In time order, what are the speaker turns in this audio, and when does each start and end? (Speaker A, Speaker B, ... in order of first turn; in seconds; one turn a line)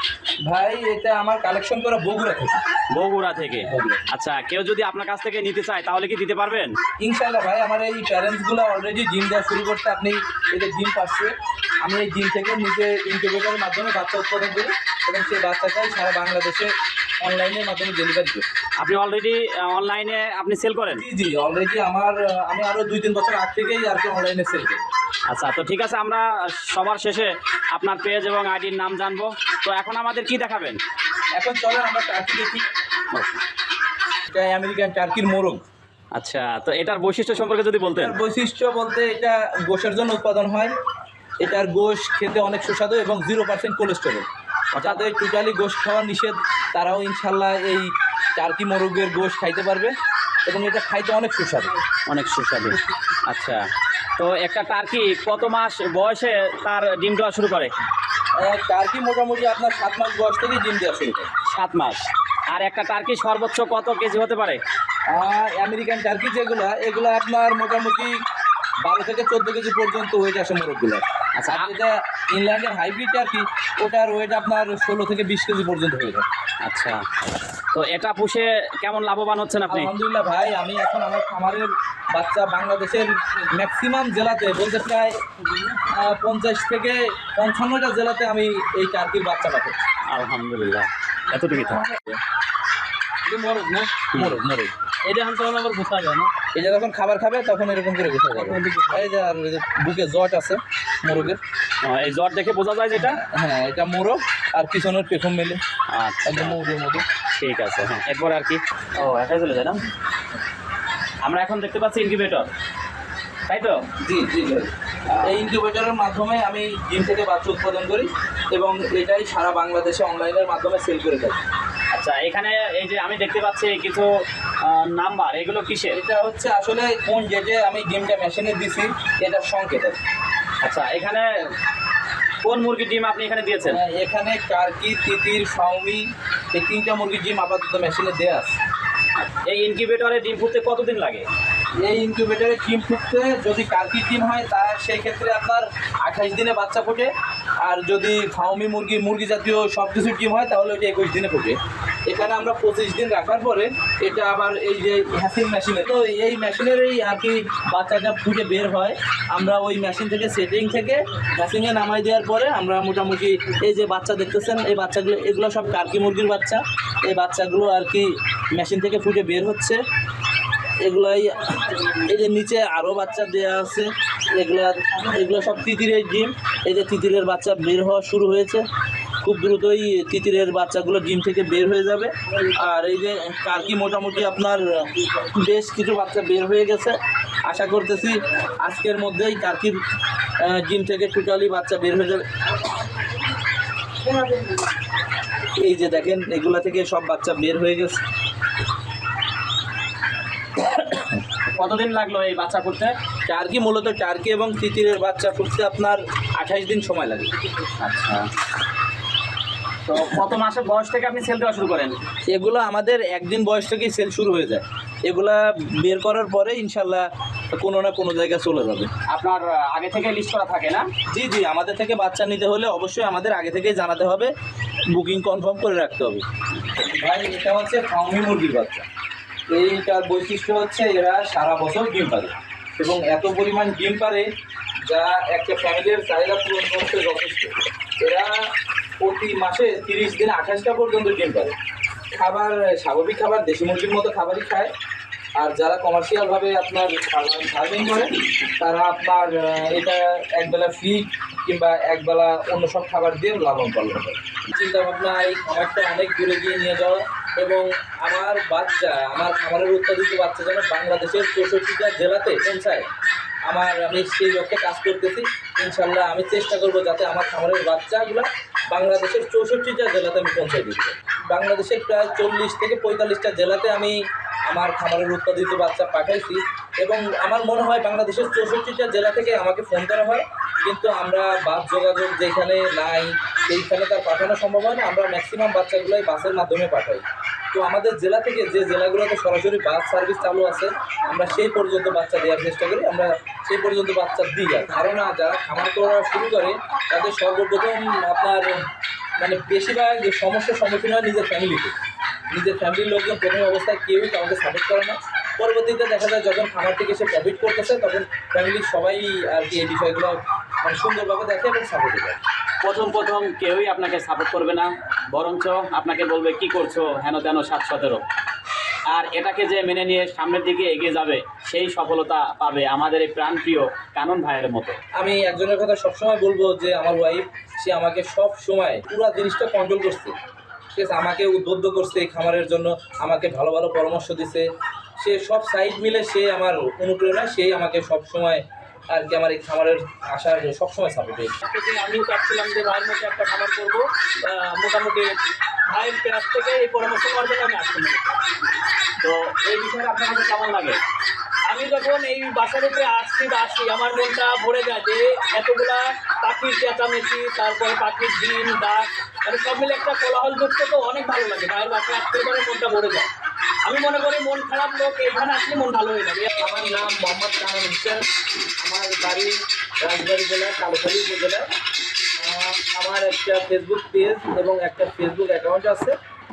Speaker A: 0.5-2.6
Speaker B: 2.9-6.7
Speaker A: 3.6-4.1
Speaker A: 7.0-18.5
Speaker B: 18.8-21.0
Speaker A: 20.9-24.9
Speaker B: 25.3-30.8
Speaker A: 31.4-32.6
Speaker B: 33.1-33.4
Speaker A: 34.3-35.6
Speaker B: 36.1-38.1
Speaker A: 37.9-40.7
Speaker A: 41.4-49.9
Speaker B: 44.7-45.0
Speaker A: 50.5-51.8
Speaker B: 52.1-53.6
Speaker B: 54.2-57.7
Speaker A: 58.4-61.3
Speaker B: 61.5-64.6
Speaker A: 65.1-68.2
Speaker A: 68.8-76.3
Speaker B: 71.4-71.7
Speaker B: 76.7-77.0
Speaker B: 77.7-79.9
Speaker A: 79.7-85.2
Speaker A: 85.8-89.8
Speaker B: 90.1-91.9
Speaker C: 93.3-94.0
Speaker B: 94.1-94.4
Speaker A: 94.2-94.7
Speaker C: 95.0-96.3
Speaker A: 96.5-101.4
Speaker C: 98.4-99.1
Speaker B: 101.8-103.2
Speaker A: 103.0-105.6
Speaker B: 105.9-106.6
Speaker A: 106.3-107.0
Speaker B: 107.3-109.8
Speaker B: 111.2-112.5
Speaker B: 113.5-113.8
Speaker A: 114.0-121.4
Speaker B: 115.1-115.4
Speaker B: 121.9-124.1
Speaker B: 124.6-126.0
Speaker A: 125.9-130.0
Speaker B: 130.6-131.5
Speaker B: 132.4-133.8
Speaker A: 133.7-138.5
Speaker B: 139.2-141.3
Speaker A: 141.8-147.1
Speaker A: 147.6-169.8
Speaker A: 170.8-178.6
Speaker A: 179.2-189.8
Speaker A: 190.4-192.2
Speaker A: 195.5-198.0
Speaker B: 201.5-202.9
Speaker A: 203.3-207.3
Speaker B: 207.8-208.3
Speaker B: 209.9-212.0
Speaker A: 212.3-218.9
Speaker B: 219.1-220.9
Speaker A: 221.1-224.3
Speaker A: 224.9-226.2
Speaker A: 226.8-228.9
Speaker A: 229.5-234.3
Speaker A: 234.9-238.4
Speaker A: 239.0-241.5
Speaker A: 242.1-244.7
Speaker A: 245.4-262.9
Speaker A: 263.5-274.0
Speaker A: 274.5-298.6
Speaker A: 299.2-301.8
Speaker A: 302.3-312.2
Speaker B: 312.6-318.0
Speaker B: 318.9-324.8
Speaker A: 325.0-330.2
Speaker A: 330.8-334.5
Speaker A: 335.0-341.4
Speaker C: 341.4-345.2
Speaker C: 345.7-348.2
Speaker B: 349.0-350.8
Speaker C: 351.5-363.1
Speaker C: 363.6-366.3
Speaker A: 366.4-368.0
Speaker A: 368.6-371.5
Speaker A: 372.2-376.0